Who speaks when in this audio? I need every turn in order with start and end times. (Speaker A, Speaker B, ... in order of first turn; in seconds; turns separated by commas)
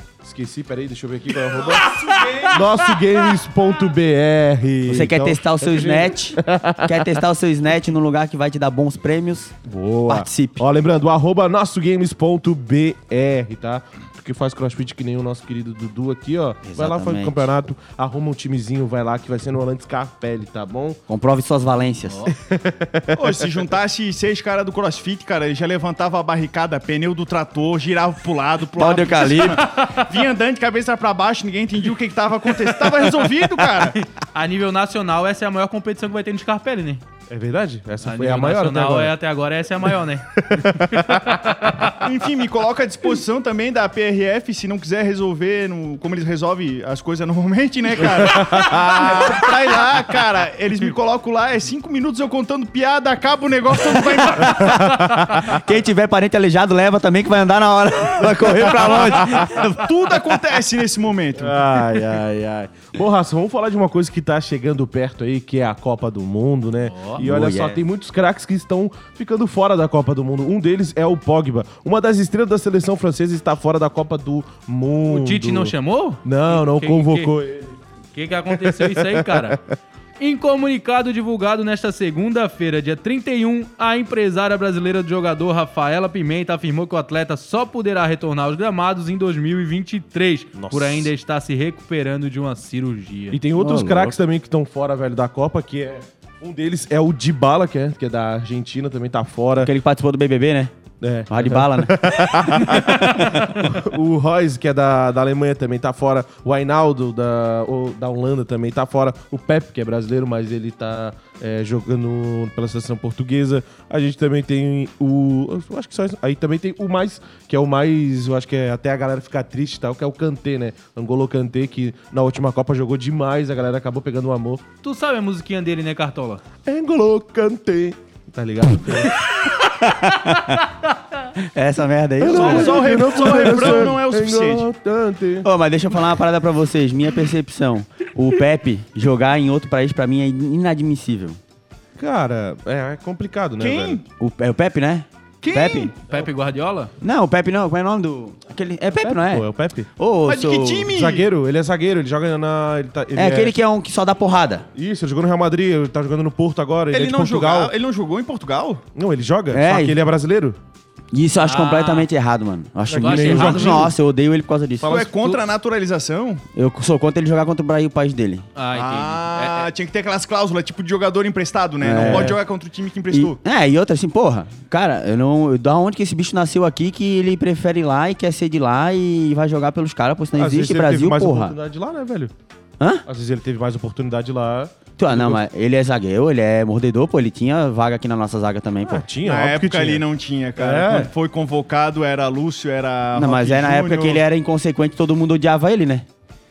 Speaker A: 0.2-7.2, Speaker B: 2.0-2.5, Speaker C: 4.9-9.5, Speaker A: 9.6-21.0, Speaker C: 10.1-10.6, Speaker C: 16.6-17.5, Speaker C: 21.1-22.3, Speaker B: 22.1-22.3, Speaker A: 22.3-23.6, Speaker D: 23.1-34.0, Speaker C: 28.8-29.6, Speaker B: 34.2-37.0, Speaker A: 37.3-39.1, Speaker B: 38.0-42.0, Speaker A: 40.4-41.6, Speaker D: 42.0-54.7, Speaker A: 48.1-49.3, Speaker C: 54.4-59.9, Speaker A: 55.0-55.4, Speaker A: 58.2-59.4, Speaker D: 59.6-61.6, Speaker A: 61.4-77.8, Speaker B: 66.8-67.2, Speaker C: 67.2-67.8, Speaker B: 75.1-77.3, Speaker B: 78.1-79.6, Speaker A: 78.5-79.6, Speaker B: 80.2-93.4, Speaker A: 90.5-91.1, Speaker A: 93.3-99.7, Speaker C: 93.5-94.2, Speaker C: 99.6-100.7, Speaker A: 101.0-124.6, Speaker C: 101.3-103.5, Speaker B: 124.8-126.4, Speaker A: 126.6-129.2, Speaker C: 129.6-130.6, Speaker C: 131.4-133.5, Speaker A: 132.2-135.5, Speaker D: 132.2-134.7, Speaker C: 135.4-141.4, Speaker A: 142.0-144.0, Speaker D: 143.6-144.0, Speaker C: 144.2-145.9, Speaker D: 145.4-145.9, Speaker B: 146.1-146.9, Speaker C: 147.0-149.4, Speaker A: 149.0-149.9, Speaker C: 150.0-150.9, Speaker D: 150.2-151.3, Speaker A: 150.9-153.6, Speaker C: 153.2-154.7, Speaker A: 154.7-157.7, Speaker D: 156.9-158.8, Speaker A: 158.9-160.6, Speaker C: 159.5-159.9, Speaker C: 161.1-165.1, Speaker B: 161.4-162.1, Speaker A: 162.9-163.9, Speaker B: 162.9-163.9, Speaker D: 164.8-166.4, Speaker B: 164.9-165.4, Speaker C: 166.6-168.4, Speaker B: 168.6-169.7, Speaker D: 168.7-173.4, Speaker C: 171.8-172.4, Speaker A: 172.0-172.3, Speaker C: 173.1-181.5, Speaker A: 180.3-182.3, Speaker A: 183.1-185.4, Speaker C: 185.0-189.1, Speaker A: 188.8-190.1, Speaker D: 189.2-194.2, Speaker A: 190.6-191.1, Speaker C: 193.2-196.1